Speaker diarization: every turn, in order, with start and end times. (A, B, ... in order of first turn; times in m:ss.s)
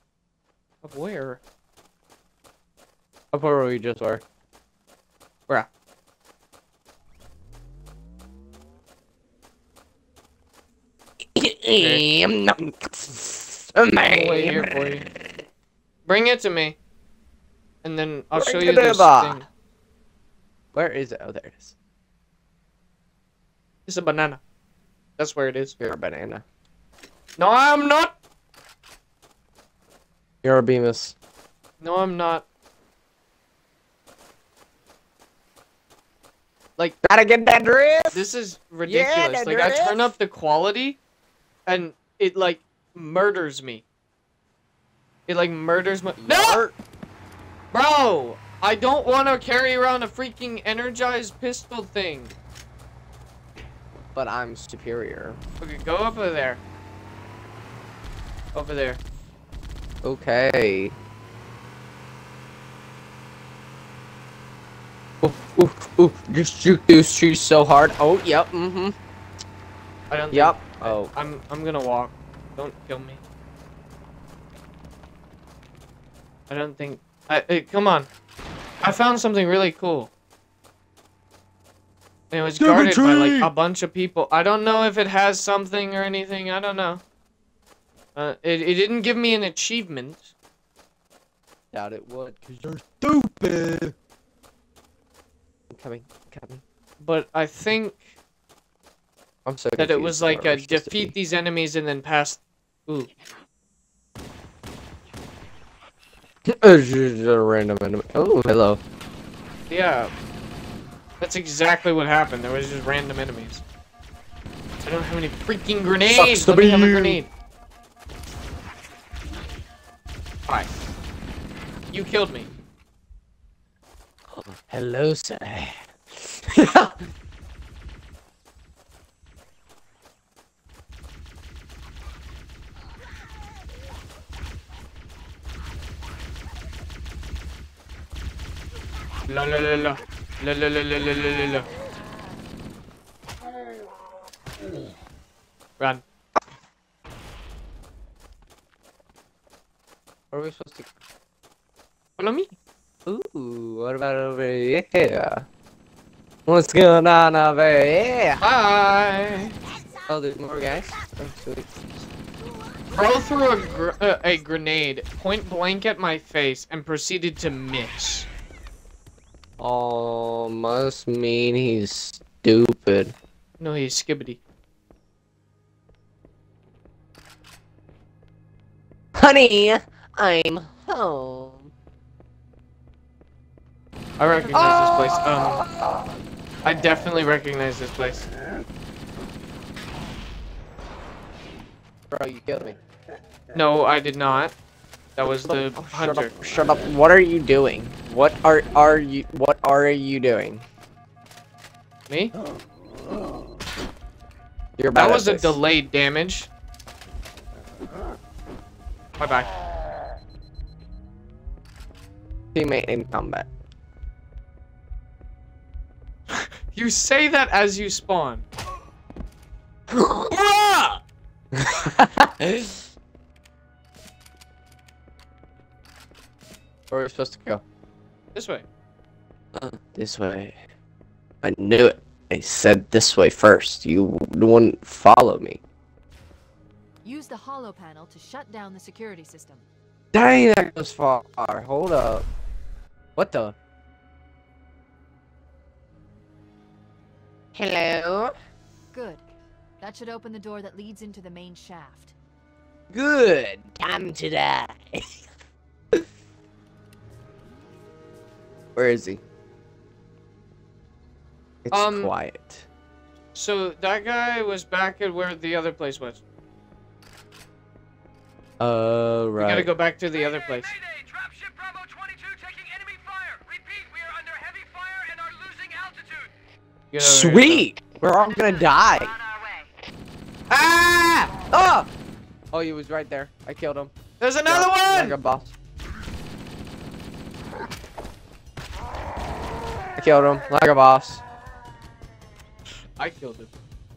0:00.8-0:01.4 A
0:03.3-0:04.2 B
0:11.2-0:15.1 B
0:11.8-0:12.0 A
0:14.1-0:15.0 A
0:16.0-0:16.8 A
0:17.8-0:19.4 A
0:18.3-0:19.4 B
0:20.7-0:21.7 B
0:23.9-0:24.4 A
0:25.2-0:25.8 A
0:25.8-0:26.4 B
0:27.4-0:28.2 A
0:30.4-0:31.1 B
0:31.8-0:32.4 A
0:37.0-0:38.2 B
0:38.1-0:41.0 A
0:38.8-0:40.1 B
0:41.6-0:43.8 A
0:45.3-0:46.6 A
0:46.2-0:46.7 B
0:47.7-0:52.3 A
0:54.1-0:55.4 B
0:55.6-0:56.6 A
0:58.5-0:59.0 A
1:00.0-1:00.9 B
1:05.2-1:09.0 B
1:10.1-1:13.2 A
1:10.3-1:11.1 B
1:16.5-1:18.1 A
1:18.8-1:20.1 A
1:22.3-1:27.0 A
1:22.6-1:23.5 B
1:28.2-1:30.3 A
1:31.7-1:33.9 B
1:35.7-1:36.6 B
1:37.0-1:38.1 A
1:39.4-1:41.1 B
1:39.8-1:43.1 A
1:46.5-1:48.8 B
1:49.7-1:50.1 A
1:51.2-1:53.6 A
1:54.8-1:57.3 A
1:56.0-1:57.2 B
2:01.9-2:02.5 A
2:04.3-2:07.0 B
2:19.3-2:21.7 A
2:25.8-2:26.0 A
2:30.3-2:30.9 B
2:32.2-2:32.5 A
2:33.0-2:35.4 B
2:36.4-2:38.4 B
2:38.4-2:39.6 A
2:40.1-2:41.7 B
2:42.9-2:48.3 A
2:49.6-2:53.1 B
2:53.6-2:54.4 A
2:59.2-3:01.7 B
3:04.2-3:05.6 A
3:04.5-3:06.1 B
3:06.6-3:08.3 A
3:12.1-3:12.8 B
3:13.5-3:14.5 A
3:15.2-3:16.3 A
3:15.4-3:20.6 B
3:22.1-3:22.3 A
3:24.8-3:25.6 B
3:24.9-3:26.5 A
3:29.2-3:29.5 A
3:32.5-3:33.5 B
3:36.3-3:38.4 A
3:40.2-3:41.0 A
3:41.5-3:42.8 B
3:46.9-3:47.6 B
3:48.3-3:48.6 A
3:49.5-3:50.6 B
3:51.4-3:55.6 B
3:57.0-3:59.6 C
4:00.1-4:02.3 B
4:03.2-4:03.5 B
4:07.5-4:08.3 B
4:08.9-4:09.2 C
4:09.8-4:12.1 C
4:12.9-4:15.2 B
4:18.7-4:19.2 B
4:21.6-4:22.6 B
4:21.7-4:22.1 A
4:23.3-4:26.2 A
4:28.6-4:29.7 B
4:29.4-4:30.7 A
4:30.6-4:36.3 D
4:36.9-4:37.6 A
4:37.0-4:39.1 B
4:38.3-4:39.7 C
4:40.5-4:41.3 A
4:41.5-4:41.9 B
4:42.5-4:43.9 B
4:44.2-4:45.2 A
4:44.4-4:45.5 B
4:50.0-4:51.2 B
4:53.0-4:53.5 A